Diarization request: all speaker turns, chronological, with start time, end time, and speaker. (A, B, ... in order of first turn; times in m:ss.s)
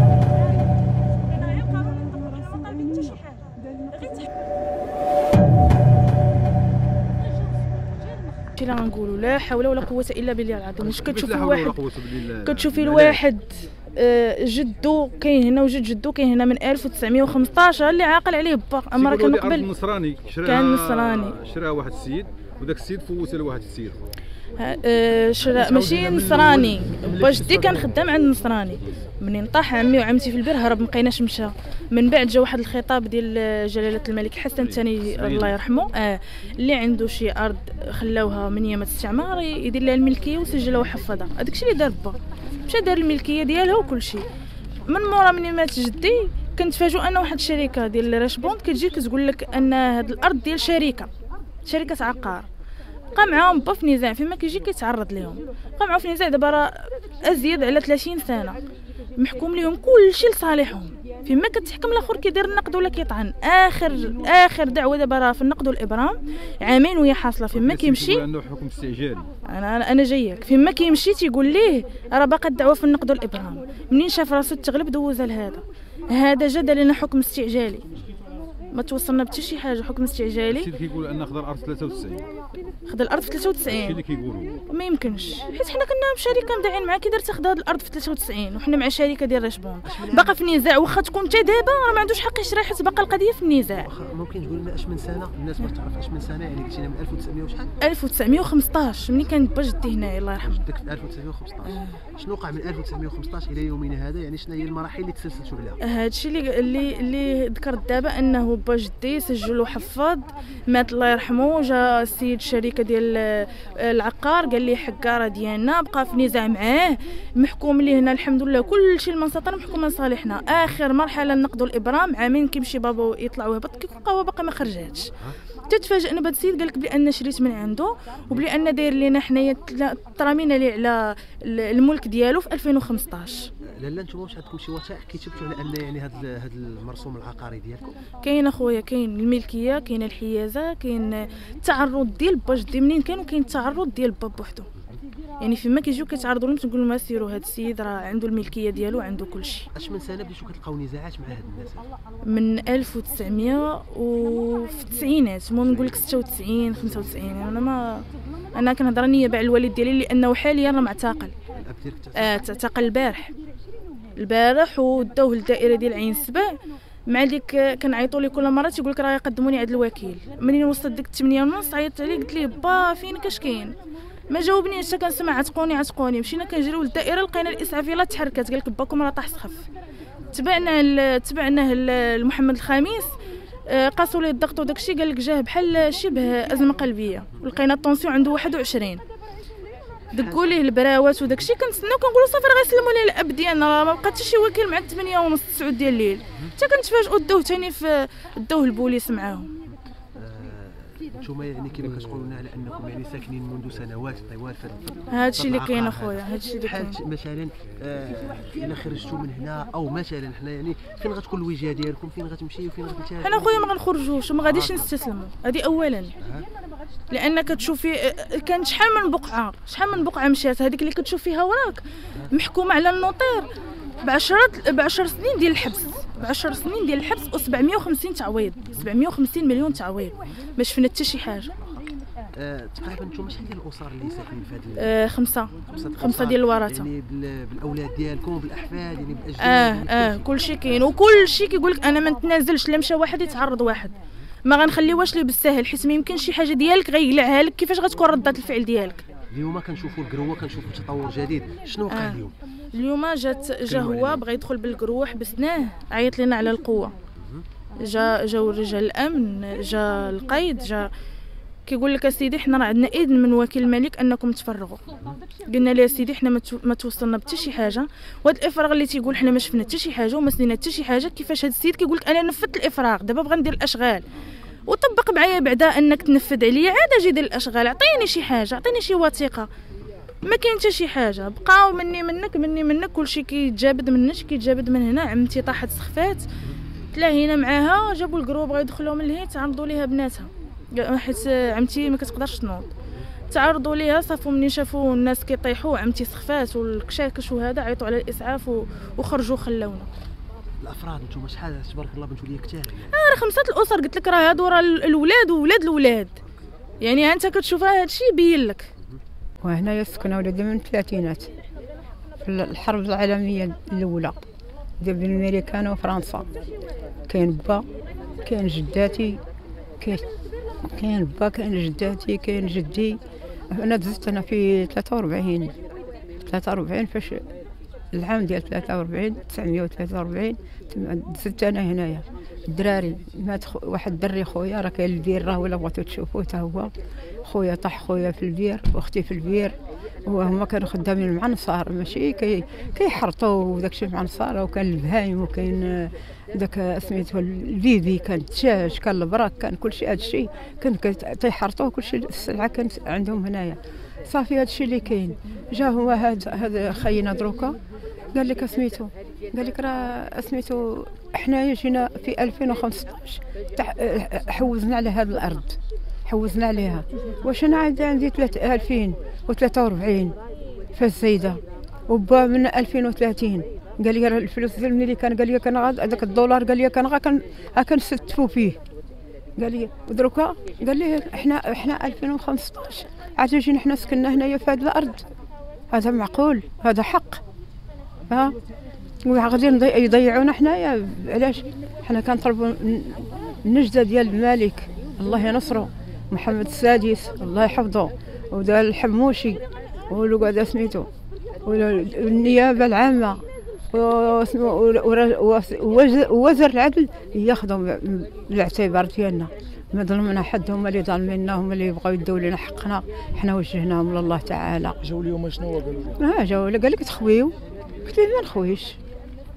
0:01.3-0:04.3 A
0:08.5-0:11.8 A
0:10.8-0:13.2 B
0:12.4-0:19.7 A
0:19.0-0:24.0 B
0:20.4-0:21.3 A
0:24.6-0:44.2 A
0:25.7-0:27.7 C
0:34.6-0:35.6 B
0:44.8-0:51.1 A
0:51.6-0:52.5 A
0:53.1-0:58.6 A
0:59.2-1:08.2 A
1:07.6-1:09.3 B
1:09.4-1:17.8 A
1:18.7-1:20.7 A
1:20.5-1:22.2 B
1:22.9-1:24.0 A
1:23.7-1:24.5 B
1:24.7-1:33.9 A
1:29.9-1:30.3 D
1:33.8-1:37.7 D
1:37.8-1:40.6 A
1:40.4-1:45.8 D
1:45.8-2:05.1 A
2:05.7-2:13.5 A
2:13.7-2:18.0 D
2:18.2-2:24.7 A
2:25.4-2:29.7 A
2:29.7-2:31.9 D
2:32.2-2:38.0 A
2:38.5-2:41.3 A
2:41.5-2:42.4 D
2:42.2-2:43.3 A
2:44.2-2:46.6 A
2:47.1-2:53.8 A
2:54.3-2:59.6 A
3:00.3-3:03.1 A
3:03.7-3:09.0 A
3:10.1-3:10.4 D
3:10.1-3:19.5 A
3:20.2-3:33.6 D
3:25.1-3:27.0 A
3:33.2-3:36.1 A
3:34.4-3:34.8 D
3:37.1-3:43.5 A
3:44.0-3:51.5 A
3:52.4-3:54.9 D
3:54.8-3:56.9 A
3:55.7-4:00.2 D
3:59.4-4:03.9 A
4:04.4-4:09.0 A
4:09.3-4:12.3 D
4:11.9-4:12.2 A
4:12.7-4:16.9 A
4:13.7-4:14.2 D
4:17.8-4:20.9 A
4:21.6-4:24.8 A
4:25.4-4:34.0 A
4:34.7-4:39.5 A
4:40.2-4:46.3 A
4:46.9-4:52.7 A
4:53.3-4:59.9 A
5:00.6-5:03.0 D
5:02.9-5:06.1 A
5:06.8-5:08.7 A
5:09.4-5:11.3 E
5:12.2-5:14.2 E
5:14.8-5:16.3 E
5:17.1-5:17.6 E
5:18.2-5:19.2 E
5:19.8-5:20.1 E
5:20.6-5:25.5 E
5:26.2-5:27.3 E
5:27.9-5:36.7 E
5:37.2-5:57.6 E
5:58.1-6:10.2 E
6:10.7-6:18.6 E
6:19.4-6:25.0 E
6:25.7-6:27.2 E
6:28.1-6:28.4 E
6:29.0-6:40.9 E
6:41.4-6:54.8 E
6:54.9-6:56.0 C
6:56.0-6:58.8 E